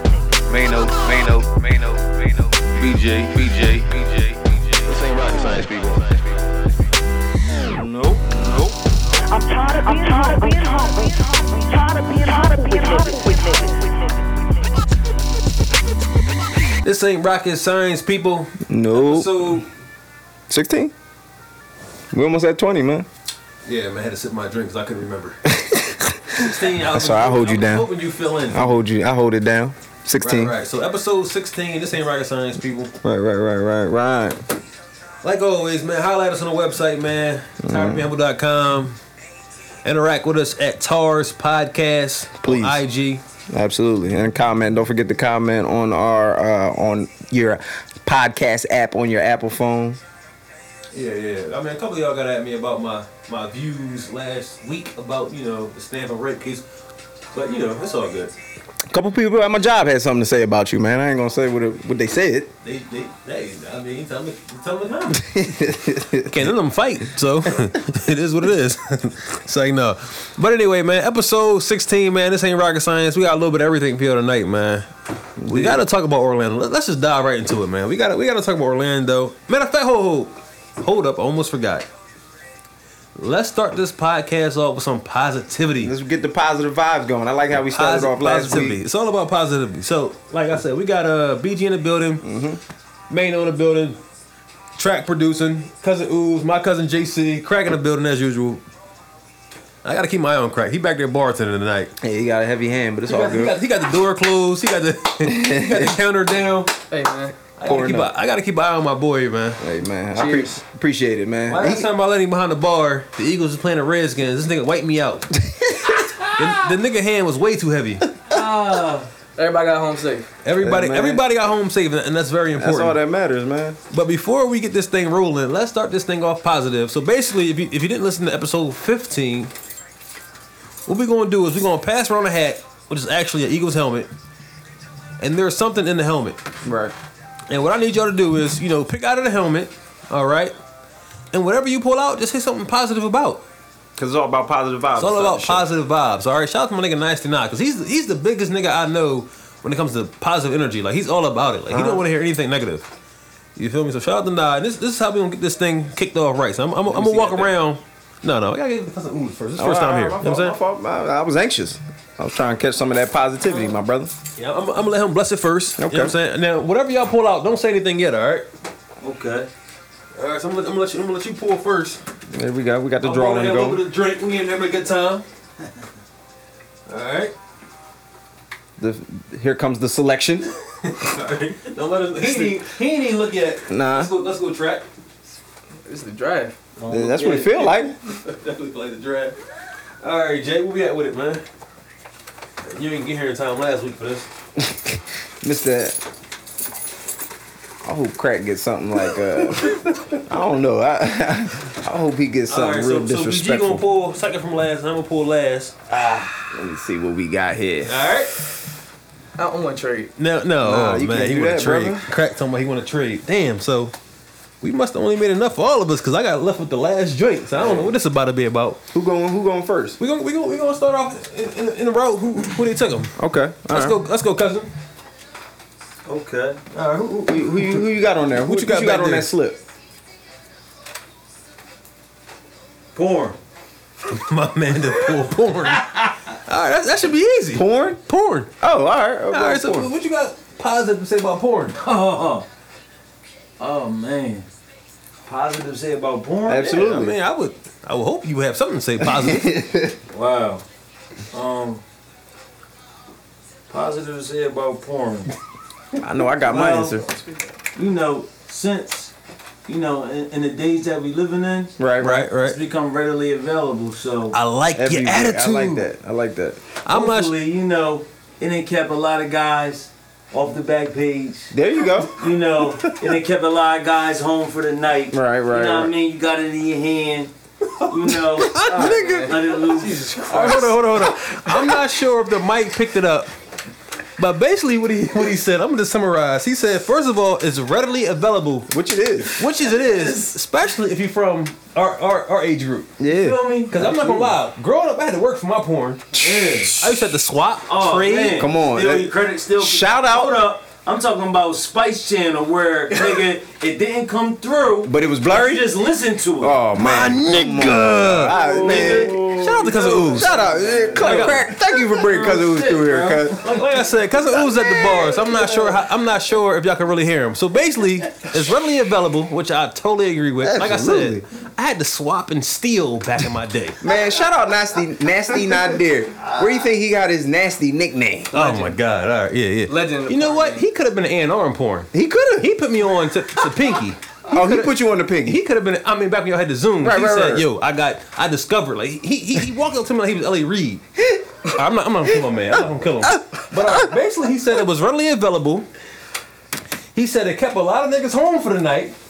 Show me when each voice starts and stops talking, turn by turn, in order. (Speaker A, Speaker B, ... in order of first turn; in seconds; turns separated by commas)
Speaker A: 0.5-5.1, Speaker B: 4.8-6.2, Speaker C: 7.7-8.5, Speaker D: 9.3-13.9, Speaker B: 16.8-19.6, Speaker C: 18.7-19.6, Speaker C: 20.5-20.9, Speaker C: 22.1-23.1, Speaker B: 23.6-25.4, Speaker C: 25.5-27.9, Speaker B: 26.4-28.8, Speaker C: 28.5-30.5, Speaker B: 30.2-32.9, Speaker C: 33.0-34.4, Speaker B: 35.2-39.0, Speaker C: 37.6-38.1, Speaker B: 39.8-43.2, Speaker C: 42.4-42.8, Speaker C: 43.5-50.0, Speaker B: 50.9-56.6, Speaker B: 57.3-58.3, Speaker C: 58.9-62.5, Speaker B: 62.6-65.5, Speaker C: 65.1-66.5, Speaker B: 66.2-74.8, Speaker C: 75.4-75.8, Speaker B: 75.5-81.9, Speaker B: 83.2-85.9, Speaker C: 85.8-88.8, Speaker B: 87.7-92.2, Speaker C: 92.2-92.6, Speaker B: 93.1-94.0, Speaker B: 94.8-98.6, Speaker B: 99.8-101.9, Speaker C: 102.0-103.5, Speaker B: 103.1-106.7, Speaker C: 105.2-106.0, Speaker E: 106.9-107.3, Speaker B: 107.6-109.6, Speaker C: 107.6-108.1, Speaker C: 109.6-111.9, Speaker E: 110.1-110.5, Speaker B: 111.5-115.3, Speaker C: 115.4-116.3, Speaker B: 116.3-118.1, Speaker F: 118.3-119.1, Speaker E: 119.3-120.3, Speaker B: 120.4-123.0, Speaker C: 120.6-121.2, Speaker C: 122.5-123.8, Speaker B: 123.9-129.5, Speaker B: 130.8-134.1, Speaker B: 135.2-136.4, Speaker C: 136.6-136.9, Speaker B: 137.5-140.5, Speaker B: 141.3-143.4, Speaker C: 144.0-145.7, Speaker B: 144.9-152.9, Speaker C: 151.7-152.0, Speaker B: 153.6-160.6, Speaker C: 156.9-157.5, Speaker C: 159.6-164.1, Speaker B: 164.4-168.5, Speaker C: 165.8-166.1, Speaker F: 169.0-169.5, Speaker B: 170.2-172.0, Speaker C: 172.3-173.8, Speaker B: 173.0-175.2, Speaker B: 176.9-177.3, Speaker C: 178.8-180.5, Speaker B: 180.8-184.8, Speaker C: 183.7-184.1, Speaker E: 185.8-186.5, Speaker F: 186.8-187.6, Speaker C: 186.9-187.9, Speaker B: 187.6-189.4, Speaker B: 190.0-191.4, Speaker B: 192.6-194.3, Speaker C: 194.6-196.0, Speaker C: 197.8-203.8, Speaker B: 202.5-206.4, Speaker C: 206.5-208.0, Speaker B: 207.8-208.4, Speaker E: 209.4-210.1, Speaker B: 210.2-213.9, Speaker C: 210.6-212.0, Speaker B: 214.6-218.8, Speaker C: 218.9-220.0, Speaker B: 220.0-223.1, Speaker C: 223.2-224.0, Speaker B: 223.7-224.7, Speaker F: 226.1-226.6, Speaker B: 226.7-227.8, Speaker C: 227.2-229.6, Speaker B: 228.4-229.3, Speaker F: 232.9-233.4, Speaker B: 234.1-238.5, Speaker C: 237.5-238.0, Speaker C: 238.6-239.9, Speaker B: 239.3-241.8, Speaker F: 241.8-242.4, Speaker F: 243.6-244.5, Speaker F: 245.2-247.0, Speaker C: 246.5-247.1, Speaker B: 246.7-249.5, Speaker C: 249.0-250.0, Speaker F: 250.1-250.6, Speaker F: 251.3-251.8, Speaker F: 253.7-255.3, Speaker C: 256.0-257.1, Speaker F: 256.4-257.0, Speaker F: 257.7-259.1, Speaker F: 259.7-261.8, Speaker C: 261.8-262.3, Speaker B: 262.0-262.6, Speaker F: 262.4-264.4, Speaker B: 264.3-265.9, Speaker C: 264.7-266.6, Speaker B: 266.8-267.3, Speaker F: 266.9-271.5, Speaker C: 271.5-272.1, Speaker F: 272.1-277.3, Speaker C: 275.1-275.9, Speaker B: 277.8-279.4, Speaker F: 277.9-278.6, Speaker E: 278.6-280.8, Speaker F: 279.2-280.2, Speaker B: 280.2-283.3, Speaker B: 284.2-288.7, Speaker C: 288.7-289.5, Speaker B: 289.3-292.9, Speaker C: 293.0-293.4, Speaker F: 293.0-294.4, Speaker B: 293.7-296.1, Speaker C: 296.1-296.7, Speaker F: 296.1-296.9, Speaker B: 296.6-298.4, Speaker F: 297.7-306.6, Speaker C: 298.3-300.4, Speaker C: 304.8-305.7, Speaker C: 306.4-313.4, Speaker B: 306.8-311.5, Speaker F: 308.5-309.2, Speaker F: 310.3-313.4, Speaker B: 313.4-323.8, Speaker C: 314.3-315.8, Speaker C: 320.4-321.2, Speaker C: 323.8-328.6, Speaker B: 328.3-334.0, Speaker E: 328.5-328.7, Speaker E: 329.7-330.6, Speaker C: 331.9-332.5, Speaker C: 334.3-335.4, Speaker B: 335.2-340.8, Speaker C: 336.8-337.5, Speaker B: 341.5-345.7, Speaker B: 346.9-348.9